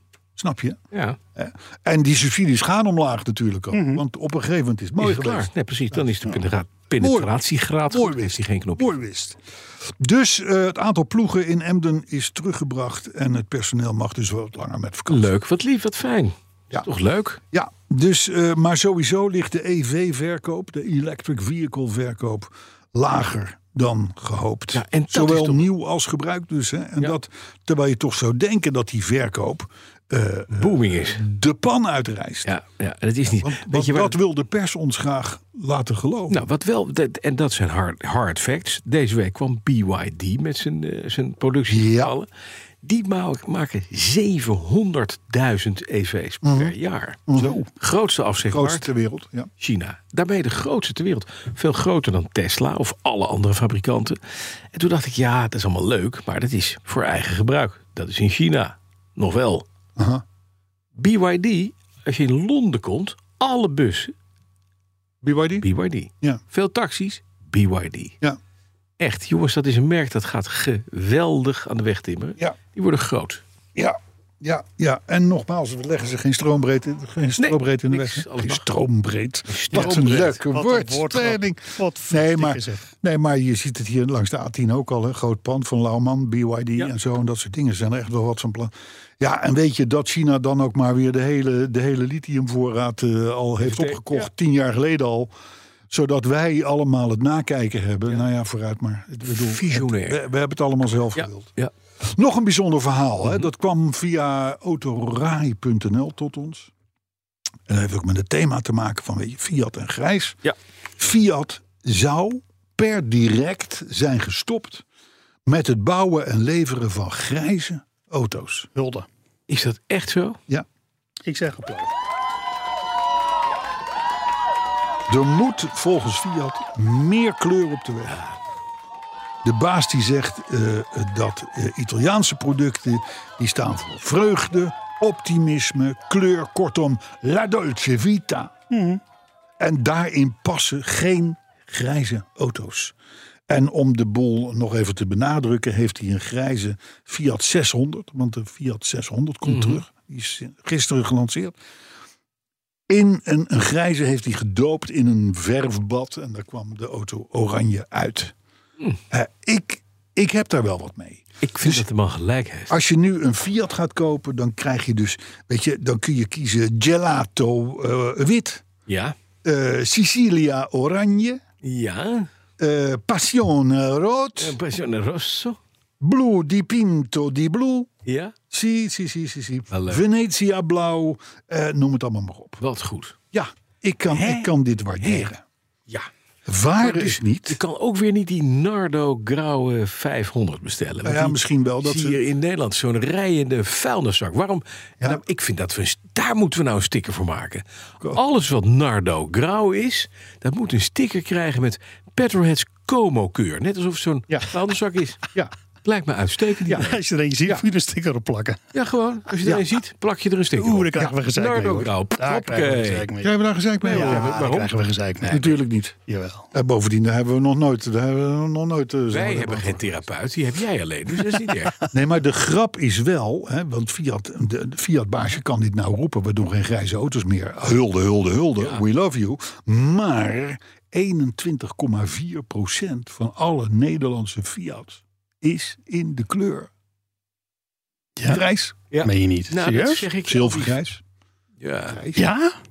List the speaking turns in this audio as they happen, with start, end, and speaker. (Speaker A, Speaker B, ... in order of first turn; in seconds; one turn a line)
Speaker A: 0.3-0.8
Speaker B: 0.9-1.2
Speaker A: 1.4-6.4
Speaker C: 3.7-4.0
Speaker B: 5.0-8.9
Speaker A: 7.0-7.3
Speaker A: 7.9-15.3
Speaker B: 15.1-17.4
Speaker A: 17.5-32.5
Speaker B: 24.7-25.7
Speaker B: 30.5-31.2
Speaker B: 32.5-34.2
Speaker A: 33.4-36.5
Speaker B: 36.3-42.3
Speaker A: 41.7-42.1
Speaker B: 42.8-48.9
Speaker A: 46.4-46.7
Speaker A: 47.3-47.7
Speaker A: 48.5-49.5
Speaker B: 49.6-54.2
Speaker B: 54.7-59.6
Speaker A: 60.0-60.2
Speaker B: 61.0-64.1
Speaker A: 65.2-65.7
Speaker B: 65.6-68.2
Speaker B: 69.0-73.4
Speaker A: 73.7-95.3
Speaker B: 77.4-78.7
Speaker B: 79.5-80.4
Speaker C: 79.7-82.9
Speaker B: 93.6-94.3
Speaker A: 95.9-106.7
Speaker B: 99.3-100.2
Speaker B: 101.2-101.7
Speaker A: 107.7-110.4
Speaker A: 111.0-114.8
Speaker A: 115.5-118.7
Speaker C: 118.7-119.1
Speaker B: 119.5-120.4
Speaker C: 121.2-121.9
Speaker A: 125.1-128.2
Speaker B: 128.1-128.3
Speaker A: 129.4-138.5
Speaker C: 138.7-139.0
Speaker A: 139.6-142.9
Speaker A: 143.5-151.6
Speaker B: 149.4-149.8
Speaker A: 152.9-158.3
Speaker A: 159.1-161.8
Speaker B: 161.4-162.7
Speaker A: 162.7-168.6
Speaker B: 168.9-169.1
Speaker A: 169.4-171.4
Speaker B: 171.6-172.3
Speaker A: 172.6-174.6
Speaker B: 174.4-175.6
Speaker A: 176.0-177.9
Speaker B: 178.1-178.3
Speaker A: 178.5-182.6
Speaker B: 179.7-180.0
Speaker B: 182.6-183.2
Speaker A: 183.3-185.4
Speaker B: 184.1-185.3
Speaker A: 186.4-187.6
Speaker B: 186.8-205.2
Speaker A: 191.0-192.2
Speaker B: 205.8-207.0
Speaker A: 206.7-206.9
Speaker C: 206.7-208.6
Speaker B: 208.7-213.1
Speaker C: 210.5-216.5
Speaker A: 213.2-214.5
Speaker B: 213.8-214.7
Speaker A: 215.2-216.0
Speaker A: 216.5-220.0
Speaker B: 219.1-221.8
Speaker A: 221.9-236.7
Speaker C: 238.2-238.4
Speaker A: 238.3-238.8
Speaker B: 238.9-240.8
Speaker C: 239.0-240.0
Speaker A: 240.2-241.0
Speaker B: 241.6-242.0
Speaker A: 241.9-242.3
Speaker C: 242.1-242.5